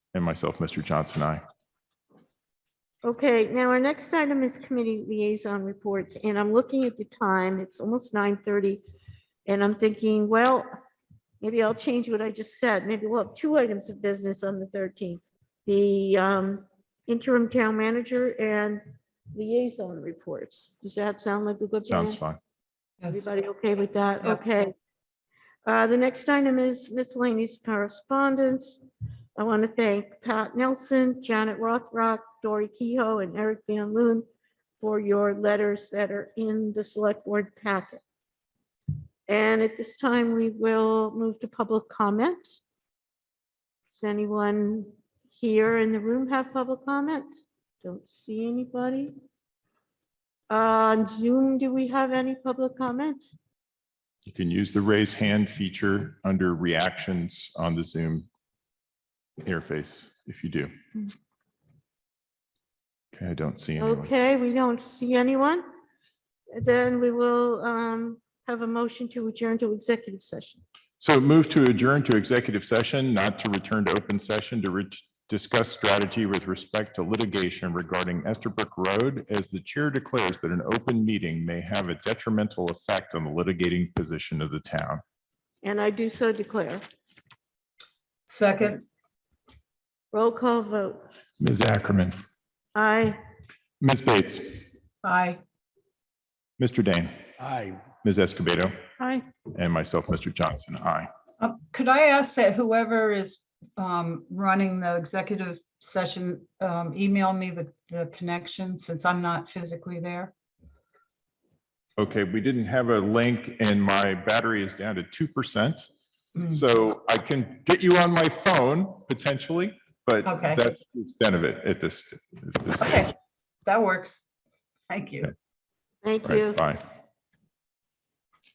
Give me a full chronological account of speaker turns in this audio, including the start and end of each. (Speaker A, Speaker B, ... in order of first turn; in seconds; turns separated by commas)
Speaker A: 0.1-1.4, Speaker B: 3.0-8.8, Speaker B: 9.4-10.7, Speaker B: 11.4-18.8, Speaker B: 19.3-22.2, Speaker A: 21.9-22.4, Speaker B: 23.1-24.7, Speaker B: 25.6-28.8, Speaker B: 29.4-34.2, Speaker B: 34.8-38.0, Speaker B: 39.3-42.6, Speaker B: 43.9-47.3, Speaker B: 47.8-49.1, Speaker B: 50.5-53.2, Speaker A: 54.2-58.3, Speaker A: 59.4-60.7, Speaker A: 63.1-64.1, Speaker B: 63.8-65.6, Speaker B: 66.5-70.6, Speaker A: 71.0-85.0, Speaker B: 85.6-86.8, Speaker C: 88.3-88.8, Speaker B: 90.1-91.0, Speaker A: 91.4-92.2, Speaker B: 92.7-93.2, Speaker A: 93.8-94.7, Speaker C: 95.0-95.4, Speaker A: 96.6-97.1, Speaker A: 98.0-98.7, Speaker A: 99.5-101.1, Speaker C: 101.4-110.3, Speaker A: 112.0-115.9, Speaker A: 116.4-123.0, Speaker C: 120.2-120.6, Speaker C: 122.8-123.1, Speaker C: 123.6-124.2, Speaker C: 124.9-125.3, Speaker B: 126.0-126.6, Speaker A: 126.2-126.8